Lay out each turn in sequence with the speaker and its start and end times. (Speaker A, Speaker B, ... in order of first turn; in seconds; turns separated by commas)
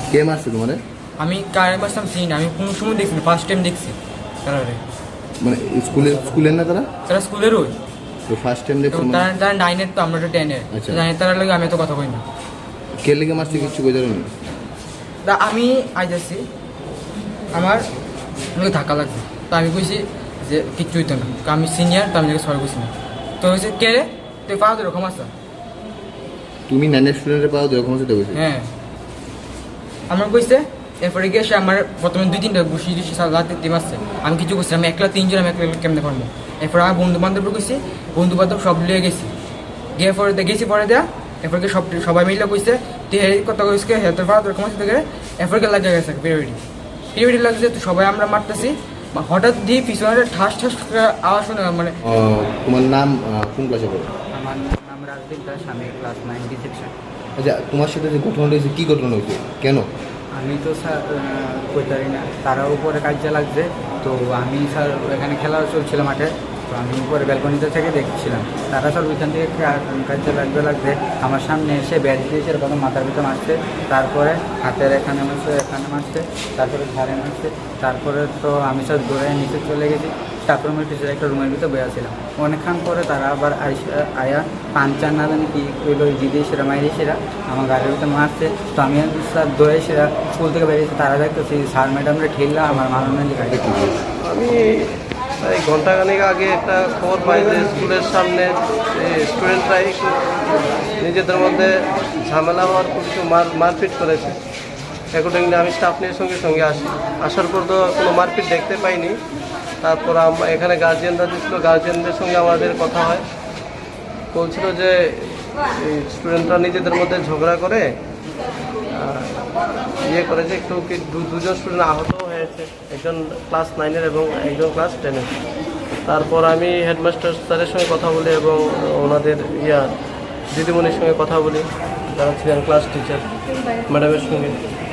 Speaker A: 0.1-0.8, Speaker B: 1.2-4.8, Speaker A: 5.4-6.9, Speaker B: 7.1-7.7, Speaker A: 8.3-9.3, Speaker B: 8.9-12.2, Speaker A: 10.7-11.0, Speaker A: 13.0-14.3, Speaker B: 15.2-16.4, Speaker B: 17.5-17.8, Speaker B: 18.5-25.3, Speaker A: 26.7-28.4, Speaker B: 28.3-28.7, Speaker B: 30.1-39.3, Speaker B: 40.0-46.6, Speaker B: 47.1-52.0, Speaker A: 52.0-54.1, Speaker C: 54.3-56.9, Speaker A: 57.4-59.9, Speaker C: 60.4-94.0, Speaker D: 94.2-104.4, Speaker D: 105.1-109.2, Speaker D: 109.8-113.2, Speaker D: 114.3-117.8, Speaker D: 118.9-119.4, Speaker D: 120.0-125.3, Speaker D: 126.0-129.9, Speaker D: 130.5-133.3, Speaker D: 133.9-134.6